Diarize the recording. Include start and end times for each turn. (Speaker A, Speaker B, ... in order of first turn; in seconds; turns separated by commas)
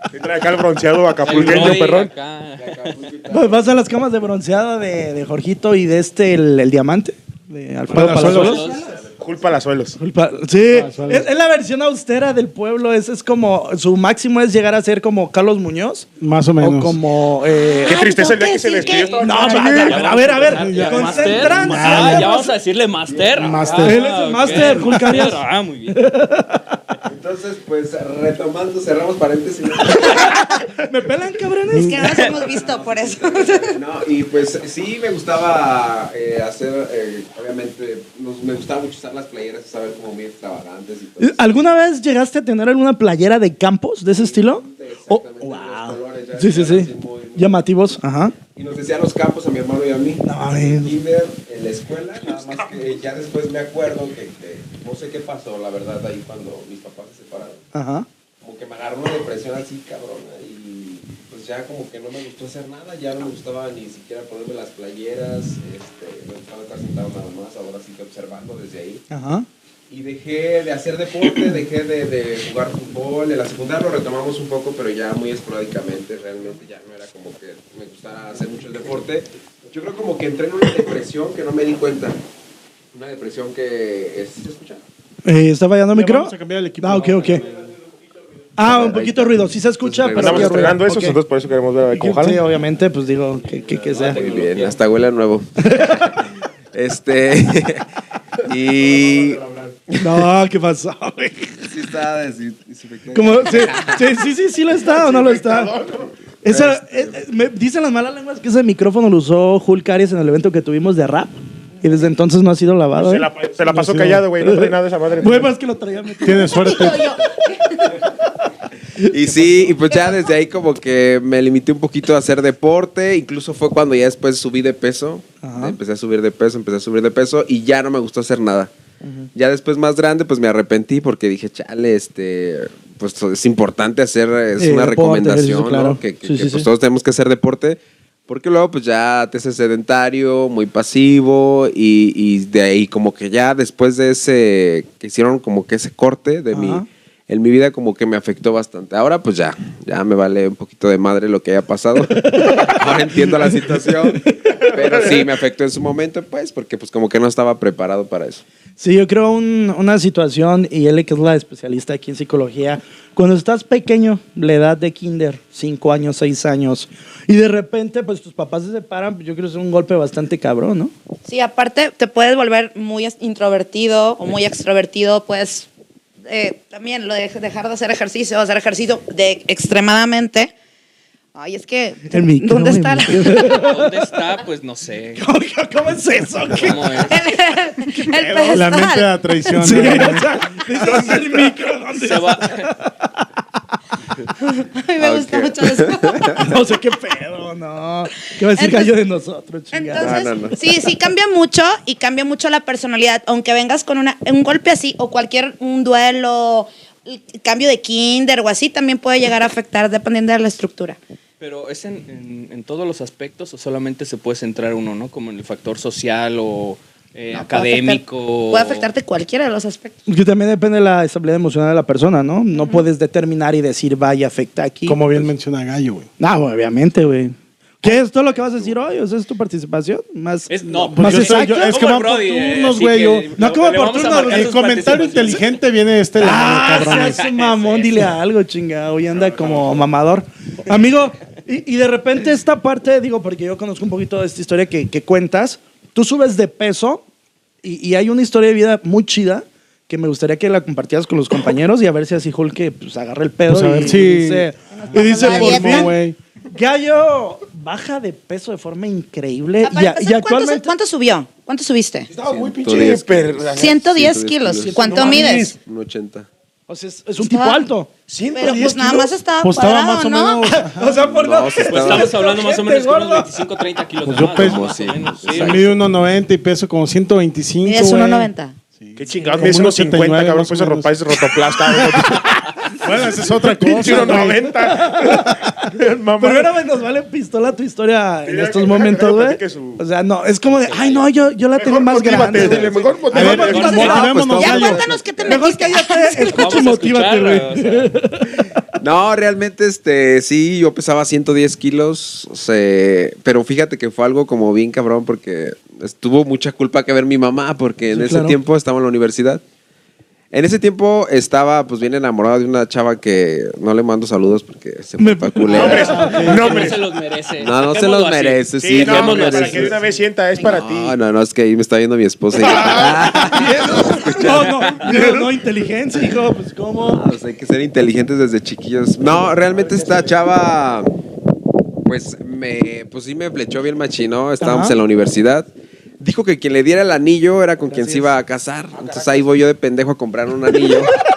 Speaker A: 0.1-2.1, Speaker B: 1.2-2.9, Speaker C: 1.4-1.8, Speaker C: 2.6-3.8, Speaker D: 3.3-8.8, Speaker E: 7.9-8.7, Speaker B: 8.2-8.9, Speaker C: 8.6-9.5, Speaker A: 9.2-10.0, Speaker D: 10.0-16.1, Speaker E: 10.7-11.3, Speaker E: 16.2-17.0, Speaker D: 16.6-18.1, Speaker F: 17.8-19.8, Speaker A: 17.8-20.1, Speaker B: 18.7-26.0, Speaker D: 19.2-22.5, Speaker E: 20.4-22.4, Speaker C: 23.1-23.9, Speaker E: 23.4-25.1, Speaker D: 23.8-26.8, Speaker C: 27.0-30.5, Speaker D: 30.0-32.0, Speaker F: 31.7-33.8, Speaker C: 32.1-41.4, Speaker D: 41.2-48.4, Speaker C: 44.1-47.8, Speaker C: 48.5-57.6, Speaker D: 50.2-50.9, Speaker D: 57.7-58.1, Speaker C: 58.4-69.0, Speaker D: 69.1-69.5, Speaker C: 69.9-82.2, Speaker C: 82.9-84.8, Speaker D: 85.2-87.4, Speaker E: 85.9-87.6, Speaker D: 88.6-91.2, Speaker C: 88.6-90.8, Speaker A: 90.1-92.4, Speaker D: 91.9-94.3, Speaker B: 93.5-94.8, Speaker C: 94.0-97.9, Speaker D: 95.6-96.2, Speaker C: 98.4-100.2, Speaker A: 98.8-99.8, Speaker D: 100.0-101.7, Speaker C: 101.7-104.0, Speaker D: 103.1-105.7, Speaker A: 104.9-106.1, Speaker D: 106.4-113.3, Speaker C: 106.5-107.1, Speaker A: 113.0-115.5, Speaker E: 113.7-114.2, Speaker D: 114.4-116.6, Speaker E: 116.2-117.1, Speaker F: 116.3-118.0, Speaker C: 119.0-128.7, Speaker D: 125.4-125.8, Speaker D: 129.0-129.3, Speaker C: 129.3-158.4, Speaker D: 134.6-136.7, Speaker D: 146.5-146.8, Speaker D: 152.2-152.7, Speaker A: 154.4-155.3, Speaker D: 158.8-170.9, Speaker F: 171.2-175.7, Speaker F: 176.3-180.5, Speaker F: 181.3-183.6, Speaker D: 182.1-183.9, Speaker B: 183.4-185.2, Speaker D: 185.2-188.6, Speaker B: 186.5-187.2, Speaker F: 187.1-189.8, Speaker E: 188.5-190.3, Speaker D: 189.6-193.1, Speaker A: 190.8-191.5, Speaker B: 191.9-192.7, Speaker F: 194.4-196.5, Speaker C: 195.0-196.4, Speaker D: 196.4-200.6, Speaker F: 198.5-198.9, Speaker F: 199.7-211.0, Speaker C: 200.0-200.6, Speaker B: 211.4-218.9, Speaker F: 217.3-220.0, Speaker D: 220.1-225.2, Speaker F: 222.6-222.8, Speaker E: 224.8-226.1, Speaker D: 226.2-231.7, Speaker C: 228.4-228.7, Speaker B: 230.5-235.5, Speaker E: 231.0-233.3, Speaker D: 233.4-234.6, Speaker E: 234.2-237.2, Speaker D: 236.2-247.0, Speaker B: 236.6-238.2, Speaker A: 239.2-239.8, Speaker D: 247.6-255.9, Speaker E: 253.5-256.2, Speaker F: 254.8-255.9, Speaker D: 256.5-260.7, Speaker F: 259.6-262.1, Speaker A: 262.1-263.8, Speaker C: 262.2-266.3, Speaker F: 263.6-265.6, Speaker A: 264.7-265.5, Speaker D: 266.7-267.9, Speaker F: 267.2-267.7, Speaker A: 268.1-269.1, Speaker F: 268.3-270.5, Speaker E: 269.4-270.9, Speaker D: 270.5-273.3, Speaker C: 270.8-272.1, Speaker B: 271.6-275.7, Speaker E: 274.0-274.7, Speaker C: 274.3-275.9, Speaker E: 275.2-281.1, Speaker F: 277.6-278.5, Speaker A: 279.0-282.5, Speaker E: 281.8-282.2, Speaker E: 282.8-284.5, Speaker A: 283.5-286.5, Speaker D: 283.9-293.9, Speaker A: 288.2-289.8, Speaker B: 290.5-291.1, Speaker A: 291.5-294.0, Speaker C: 292.3-295.4, Speaker E: 293.1-294.9, Speaker F: 293.3-296.4, Speaker D: 295.3-298.6, Speaker B: 296.2-297.9, Speaker C: 298.8-309.4, Speaker D: 307.9-308.4, Speaker C: 310.3-316.2, Speaker D: 315.0-316.7, Speaker A: 315.5-316.8, Speaker E: 316.0-316.7, Speaker B: 316.1-319.8, Speaker C: 317.4-319.8, Speaker A: 318.6-320.9, Speaker C: 320.4-324.8, Speaker A: 322.4-325.4, Speaker D: 323.0-327.0, Speaker C: 326.9-330.9, Speaker A: 329.5-330.1, Speaker C: 331.8-340.9, Speaker D: 334.4-334.8, Speaker D: 337.7-338.1, Speaker A: 338.7-339.2